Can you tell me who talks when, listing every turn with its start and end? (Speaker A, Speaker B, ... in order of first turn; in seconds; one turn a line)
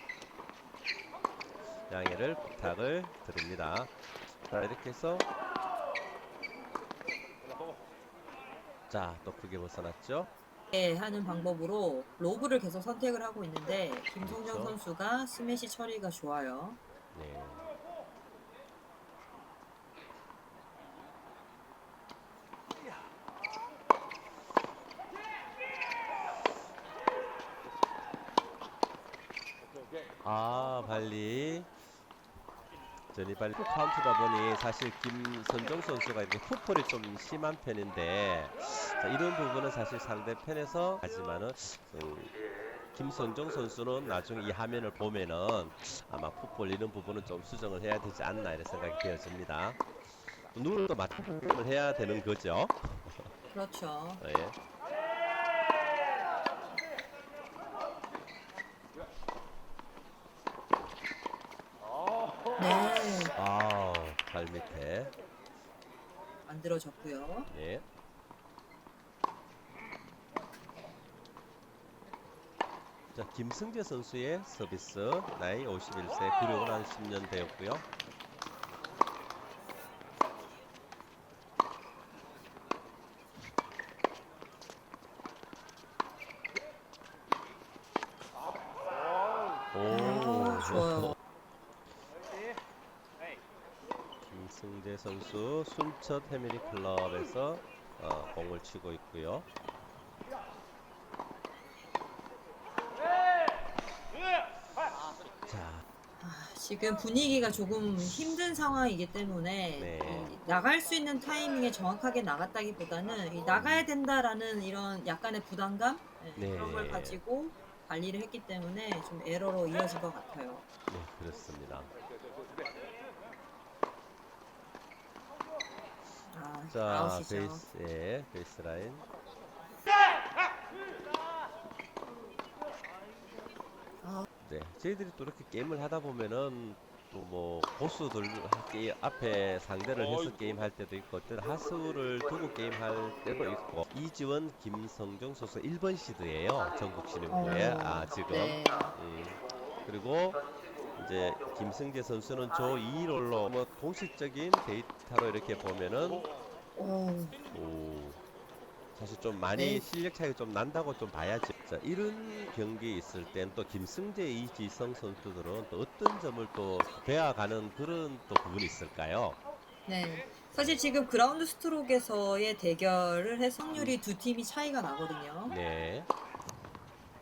Speaker A: 1.9-5.3
Speaker A: 8.9-10.3
Speaker B: 10.7-16.8
Speaker A: 14.2-14.8
Speaker A: 17.1-17.7
Speaker A: 30.2-31.7
Speaker A: 33.1-42.4
Speaker A: 42.9-49.9
Speaker A: 50.4-53.3
Speaker B: 53.5-54.2
Speaker A: 54.2-54.5
Speaker B: 62.6-63.3
Speaker A: 63.4-65.1
Speaker B: 66.5-67.5
Speaker A: 67.5-67.8
Speaker A: 73.1-77.8
Speaker A: 89.7-91.2
Speaker B: 89.9-91.2
Speaker A: 94.2-99.5
Speaker A: 105.5-105.8
Speaker B: 106.2-120.6
Speaker A: 109.8-110.4
Speaker A: 113.5-113.9
Speaker A: 116.3-117.2
Speaker A: 120.9-121.9
Speaker B: 126.3-127.6
Speaker A: 126.7-129.1
Speaker A: 134.4-150.4
Speaker B: 147.3-149.0
Speaker A: 150.9-156.2
Speaker B: 156.8-157.4
Speaker A: 157.5-158.2
Speaker A: 158.9-169.4
Speaker B: 159.5-159.9
Speaker B: 169.9-175.5
Speaker A: 170.6-170.8
Speaker A: 173.7-174.0
Speaker A: 175.5-176.1